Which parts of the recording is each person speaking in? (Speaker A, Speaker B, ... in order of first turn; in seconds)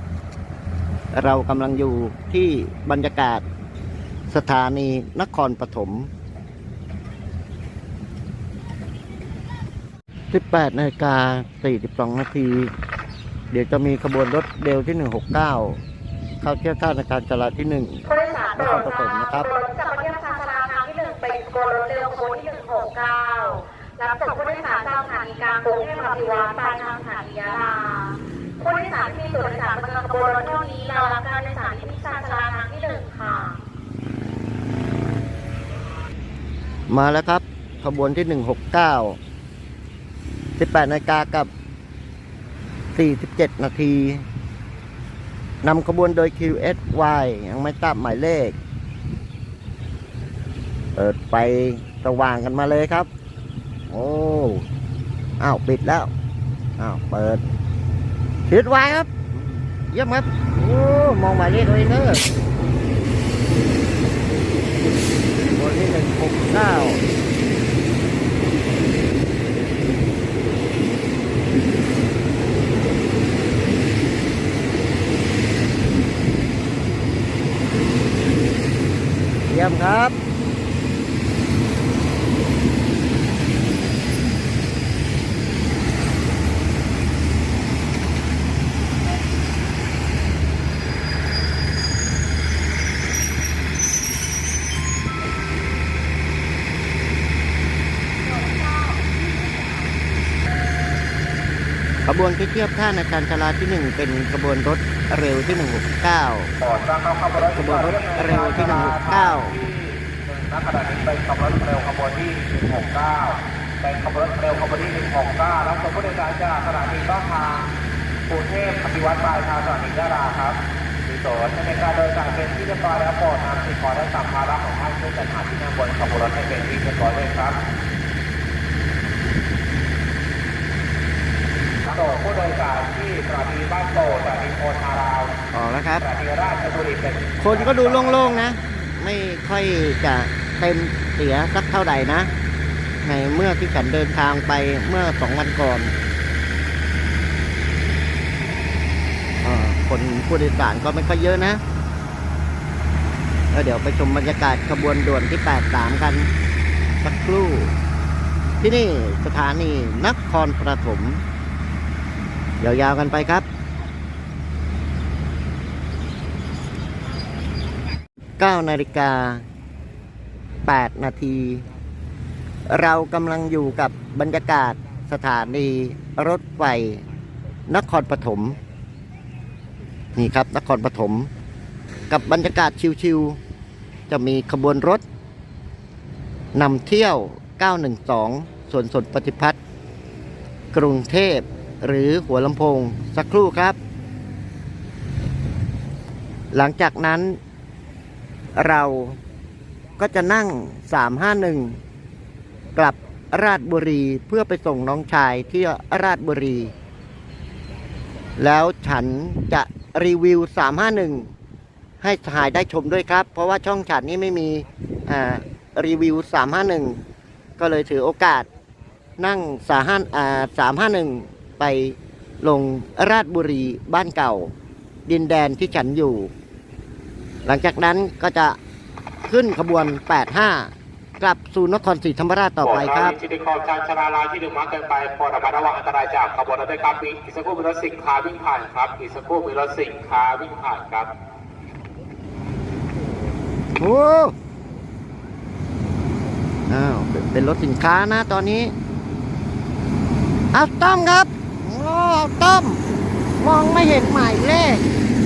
Speaker A: 1.1-3.4, 4.3-6.1, 10.3-12.7, 13.5-15.8, 16.4-19.5, 36.9-39.2, 40.6-41.5, 43.0-44.2, 45.6-48.6, 51.0-53.1, 53.9-54.7, 55.4-56.1, 56.8-57.4, 58.5-62.2, 65.5-67.0, 79.5-80.2, 102.1-106.5, 107.4-109.5, 135.5-136.0, 137.4-142.3, 143.0-145.9, 149.4-151.6, 153.5-156.3, 157.0-157.8, 158.6-161.2, 162.6-163.5, 168.4-169.4, 170.7-171.7, 172.7-177.0, 177.7-178.6, 180.2-181.3, 182.1-183.4, 184.1-185.0, 186.5-189.6, 190.7-193.8, 196.5-197.4, 198.6-199.2, 200.0-201.8, 202.8-206.7, 208.4-211.3, 212.0-217.0, 217.6-218.5, 219.2-224.5, 225.1-226.3, 227.5-228.6, 229.2-233.2, 243.8-244.3, 246.7-248.7, 250.5-252.8, 253.4-254.8
Speaker B: 18.1-33.6, 98.2-100.0
Speaker C: 106.6-117.7, 118.3-127.6, 131.8-135.4, 136.0-138.3, 232.6-241.1